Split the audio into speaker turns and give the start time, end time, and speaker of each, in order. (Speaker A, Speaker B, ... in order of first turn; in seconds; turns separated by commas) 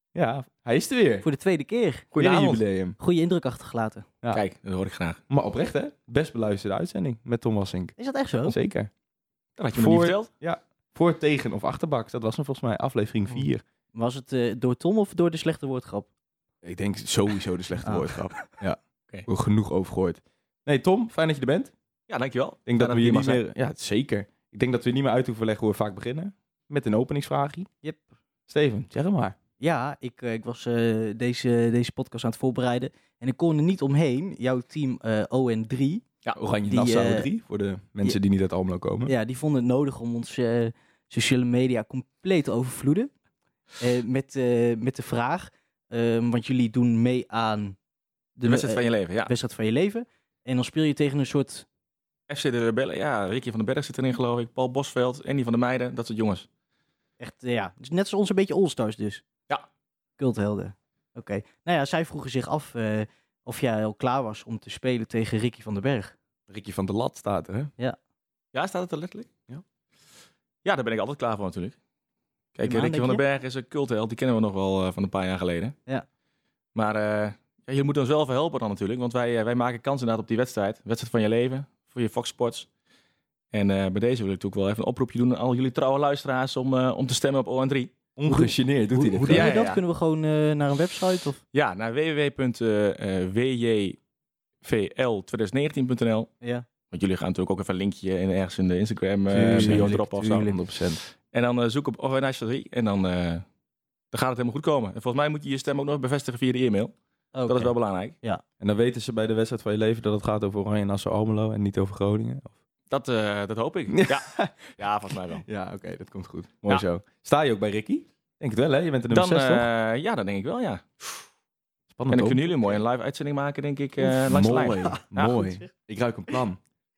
Speaker A: 0.1-1.3, Speaker B: 1.2-2.2, Speaker C: 2.1-2.6, Speaker A: 2.2-3.0, Speaker B: 3.0-4.1, Speaker C: 4.3-5.2, Speaker A: 5.3-7.9, Speaker B: 8.0-8.6, Speaker A: 8.5-8.9, Speaker C: 9.6-10.3, Speaker A: 9.7-13.6, Speaker B: 13.9-16.1, Speaker A: 16.6-21.7, Speaker B: 17.8-18.4, Speaker C: 22.1-23.4, Speaker A: 22.6-27.7, Speaker A: 28.5-29.4, Speaker B: 29.6-36.0, Speaker A: 36.3-39.1, Speaker B: 36.7-37.3, Speaker B: 39.0-43.1, Speaker B: 43.8-47.8, Speaker B: 48.4-51.6, Speaker C: 48.5-49.3, Speaker C: 52.3-56.5, Speaker B: 57.2-59.2, Speaker B: 60.2-66.1, Speaker A: 66.5-67.7, Speaker C: 68.5-69.3, Speaker C: 70.6-71.8, Speaker C: 72.5-75.7, Speaker B: 72.6-73.2, Speaker C: 76.7-82.7, Speaker C: 83.5-87.9, Speaker A: 88.2-89.5, Speaker B: 88.3-91.4, Speaker C: 89.2-89.8, Speaker C: 91.5-94.0, Speaker C: 94.6-96.3, Speaker C: 96.9-100.5, Speaker A: 99.3-101.0, Speaker B: 99.4-99.9, Speaker C: 101.2-103.4, Speaker C: 104.1-106.9, Speaker B: 107.3-108.4, Speaker C: 107.5-108.2, Speaker A: 108.6-112.5, Speaker C: 112.9-115.4, Speaker A: 113.9-114.8, Speaker A: 115.4-119.7, Speaker C: 119.1-121.2, Speaker A: 121.9-122.5, Speaker C: 122.1-124.9, Speaker A: 124.1-126.6, Speaker B: 124.5-125.7